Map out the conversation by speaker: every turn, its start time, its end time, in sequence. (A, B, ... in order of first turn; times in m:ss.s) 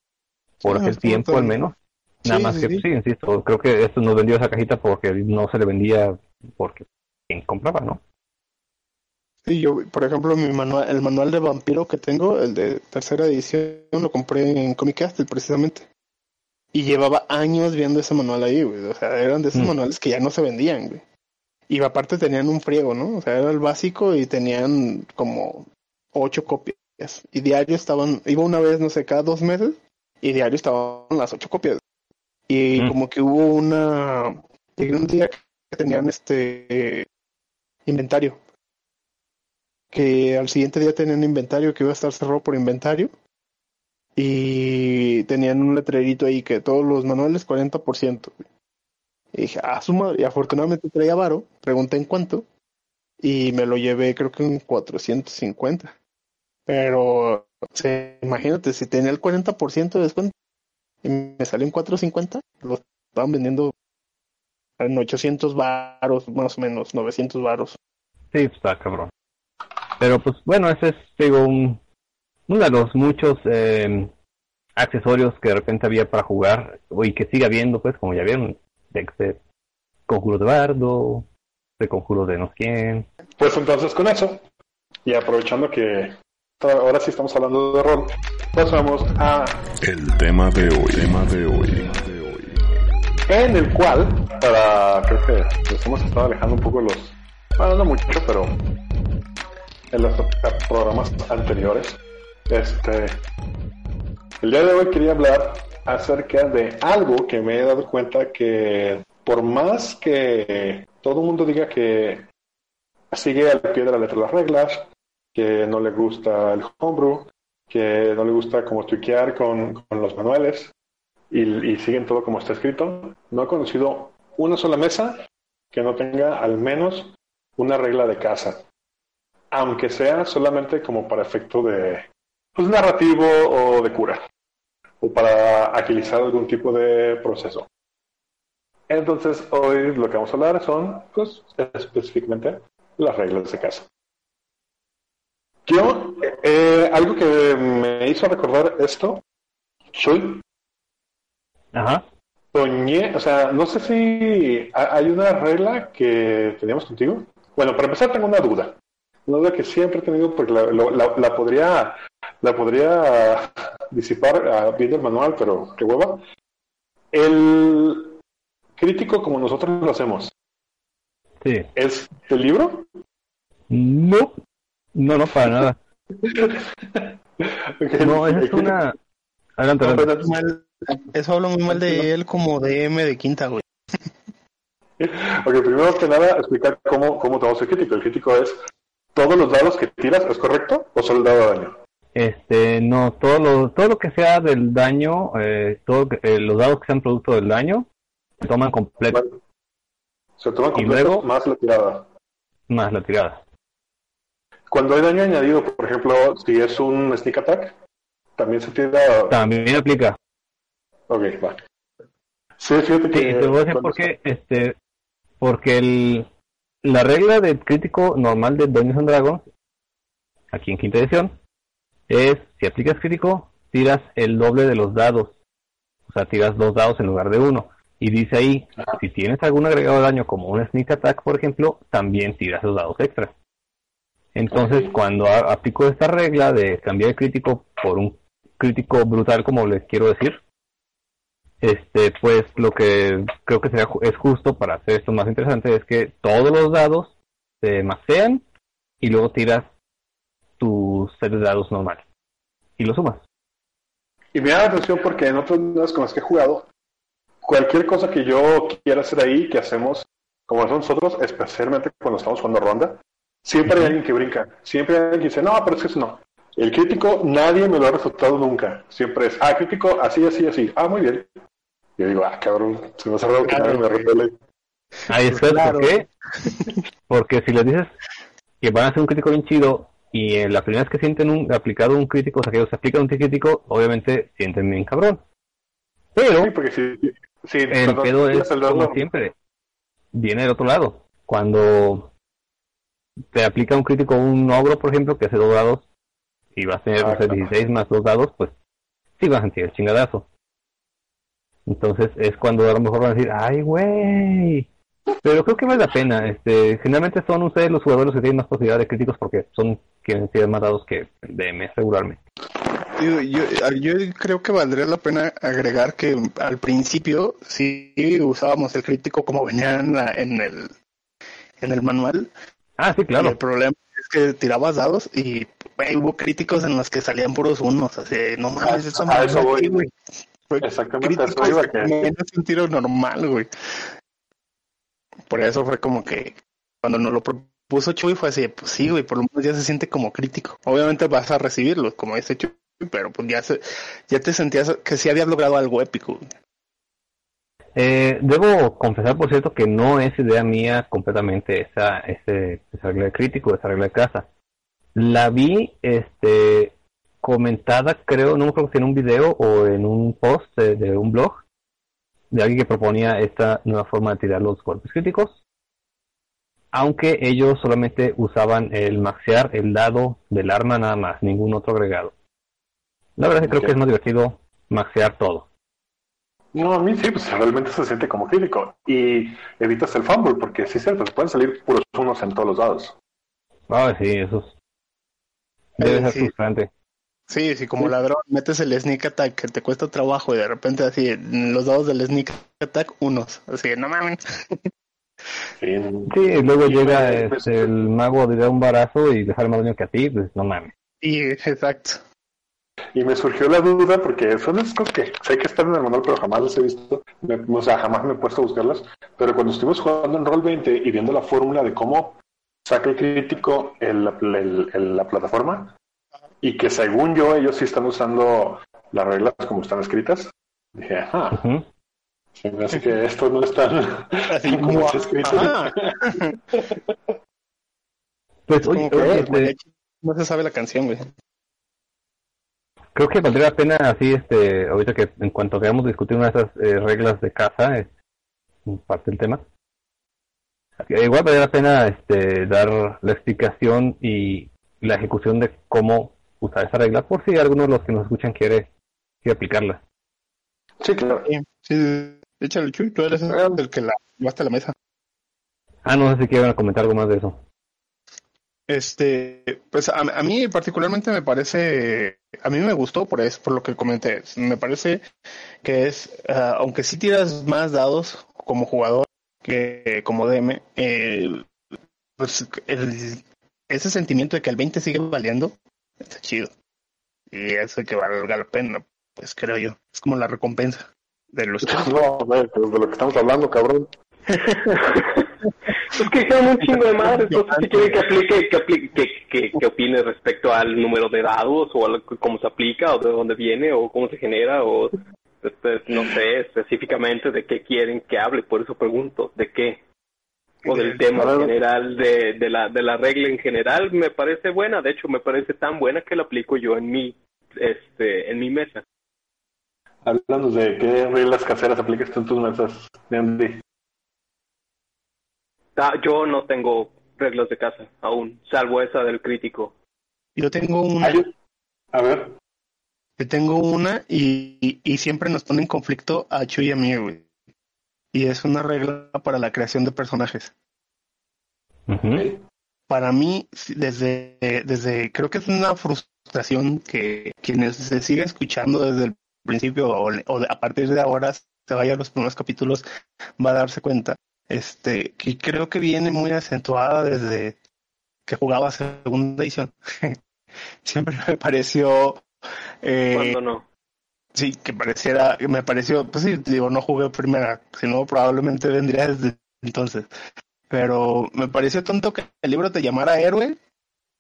0:00.6-0:01.6 A
0:00.6-0:08.0 B
0:02.2-0:02.8 A
0:09.5-0:15.9 A
0:16.7-0:21.0 A
0:21.7-0:31.8 A
0:32.5-0:37.1 A
0:37.8-0:38.4 A
0:39.9-0:43.1 A
0:44.2-0:48.4 A
0:49.3-0:52.5 A
0:53.2-0:56.0 A
0:56.7-1:00.3 A
1:01.0-1:03.7 A
1:04.8-1:07.8 A
1:08.3-1:09.1 B
1:10.0-1:11.8 B
1:12.5-1:14.1 B
1:14.8-1:19.4 B
1:20.1-1:21.3 B
1:21.8-1:23.1 B
1:23.4-1:24.4 C
1:25.0-1:29.7 C
1:29.8-1:32.8 D
1:33.3-1:38.6 C
1:39.9-1:43.2 C
1:44.4-1:52.3 C
1:53.1-2:00.7 C
2:01.3-2:05.2 C
2:05.7-2:08.6 C
2:09.5-2:14.2 C
2:15.0-2:17.7 C
2:18.9-2:23.9 C
2:25.6-2:29.2 C
2:29.9-2:30.4 C
2:31.7-2:32.1 B
2:32.5-2:46.2 C
2:47.1-2:48.1 C
2:48.8-2:50.3 C
2:51.4-2:51.7 B
2:51.8-2:52.9 C
2:53.7-2:54.3 B
2:55.0-2:55.8 B
2:56.2-2:57.1 C
2:57.8-2:58.7 C
2:58.0-2:59.0 B
2:59.6-3:00.1 B
2:59.8-3:00.3 C
3:00.1-3:03.6 A
3:01.7-3:02.1 C
3:05.0-3:08.6 C
3:09.1-3:11.8 C
3:12.1-3:17.9 B
3:18.4-3:19.2 B
3:19.1-3:19.4 C
3:20.4-3:22.1 C
3:20.7-3:21.2 B
3:22.7-3:23.4 B
3:24.7-3:27.8 C
3:28.4-3:29.4 C
3:29.3-3:30.2 B
3:31.1-3:31.6 C
3:32.6-3:34.0 C
3:33.1-3:34.7 B
3:35.4-3:36.3 B
3:36.8-3:39.4 B
3:40.5-3:41.4 B
3:42.1-3:45.4 B
3:46.0-3:53.3 B
3:54.4-4:00.4 B
3:54.5-3:55.0 C
4:01.6-4:08.4 B
4:09.0-4:09.7 B
4:10.6-4:12.0 B
4:12.8-4:13.2 B
4:14.3-4:16.7 C
4:17.4-4:31.3 C
4:23.7-4:24.0 B
4:32.0-4:34.3 C
4:33.4-4:34.1 A
4:35.1-4:36.1 B
4:35.1-4:36.8 A
4:37.1-4:38.0 B
4:38.6-4:45.2 B
4:46.1-4:46.5 B
4:46.4-4:49.0 C
4:47.7-4:49.3 B
4:50.1-4:52.1 B
4:53.3-4:55.9 B
4:56.6-4:58.5 B
4:57.0-4:57.5 C
4:59.2-5:00.3 B
5:01.7-5:04.7 B
5:05.2-5:12.2 B
5:12.9-5:20.7 A
5:21.6-5:22.3 A
5:22.8-5:23.4 B
5:23.2-5:30.0 A
5:28.6-5:29.9 C
5:30.5-5:33.9 A
5:30.6-5:32.1 C
5:35.3-5:46.3 A
5:47.7-5:54.3 B
5:55.0-6:01.4 B
6:02.3-6:05.4 B
6:06.7-6:12.1 B
6:13.2-6:15.5 B
6:13.4-6:13.7 C
6:16.5-6:23.0 C
6:23.7-6:24.5 B
6:25.8-6:26.7 B
6:25.8-6:26.3 A
6:27.3-6:34.6 A
6:35.6-6:37.7 C
6:36.1-6:40.7 B
6:41.0-6:42.0 A
6:42.9-6:55.7 C
6:56.4-7:01.4 C
7:01.3-7:01.7 B
7:02.4-7:06.8 C
7:04.3-7:06.4 A
7:08.5-7:09.5 B
7:08.6-7:11.1 A
7:09.0-7:09.2 C
7:13.0-7:17.9 B
7:18.7-7:19.4 B
7:20.8-7:28.7 B
7:29.2-7:29.8 B
7:30.8-7:31.3 C
7:31.2-7:34.7 A
7:33.3-7:33.6 C
7:35.8-7:37.4 B
7:38.7-7:45.1 A
7:45.6-7:51.5 A
7:52.2-7:56.5 A
7:57.3-8:01.9 A
8:01.7-8:03.9 C
8:05.9-8:19.8 E
8:06.7-8:08.0 A
8:20.6-8:21.0 A
8:20.6-8:28.8 E
8:21.2-8:21.5 C
8:30.0-8:33.6 C
8:35.8-8:39.7 E
8:40.4-8:41.2 A
8:41.0-8:41.3 C
8:41.9-8:42.4 C
8:43.2-8:47.3 A
8:48.1-8:50.5 A
8:51.9-8:52.3 B
8:52.1-8:52.4 C
8:52.9-9:02.8 A
9:03.4-9:07.6 A
9:08.3-9:10.2 A
9:10.8-9:12.2 A
9:12.8-9:13.4 A
9:13.1-9:13.6 E
9:14.4-9:20.1 A
9:20.7-9:23.6 A